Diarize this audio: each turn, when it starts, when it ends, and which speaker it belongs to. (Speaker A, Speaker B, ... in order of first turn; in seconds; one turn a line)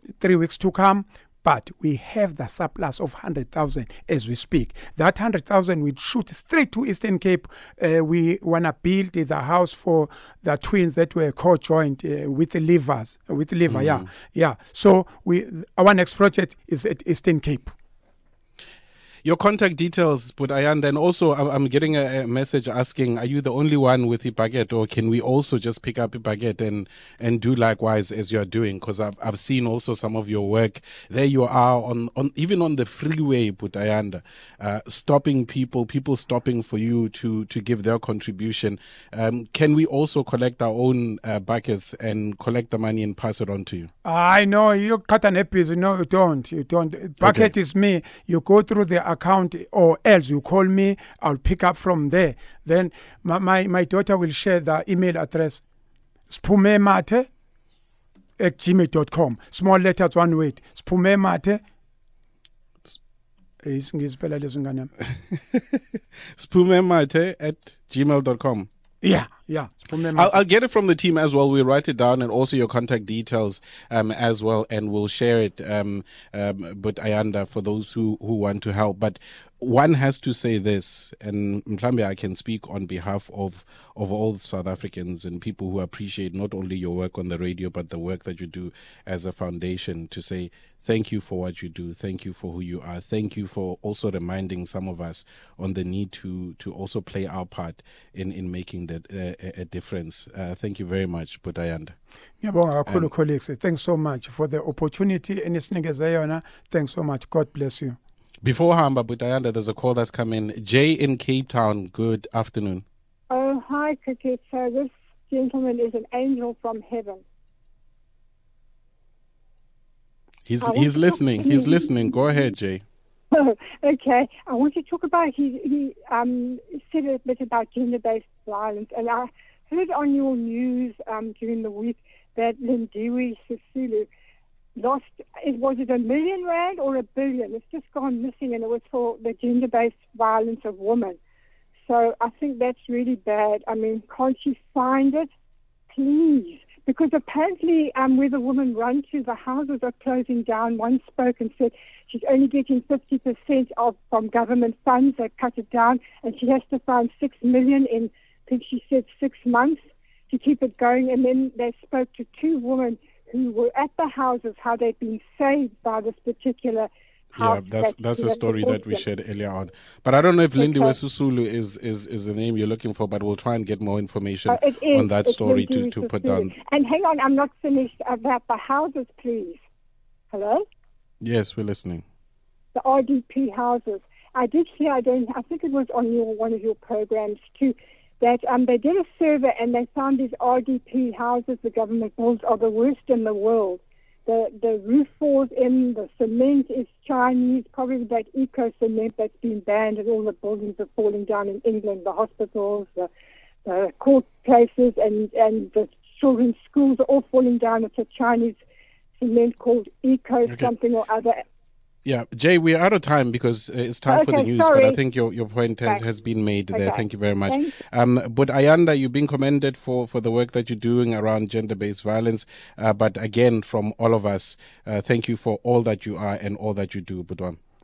Speaker A: 0.2-17.7
Speaker B: 13.7-14.1
Speaker B: 19.2-43.9
Speaker A: 44.0-55.6
Speaker B: 47.2-47.5
Speaker A: 56.3-57.3
Speaker A: 58.4-61.6
Speaker A: 63.6-64.9
Speaker B: 66.3-68.7
Speaker A: 69.0-70.4
Speaker B: 70.1-102.0
Speaker A: 102.4-108.0
Speaker B: 108.4-112.8
Speaker C: 113.3-117.2
Speaker B: 120.5-122.8
Speaker C: 120.6-121.9
Speaker C: 123.3-134.1
Speaker C: 134.8-141.2
Speaker C: 141.8-145.3
Speaker C: 145.9-169.1
Speaker B: 167.4-176.6
Speaker C: 170.6-171.0
Speaker C: 174.5-179.6
Speaker C: 180.3-180.6
Speaker B: 181.2-182.0
Speaker C: 182.8-203.1
Speaker C: 203.7-208.6
Speaker C: 209.2-211.4
Speaker B: 212.1-227.6
Speaker C: 214.1-215.0
Speaker C: 216.7-217.7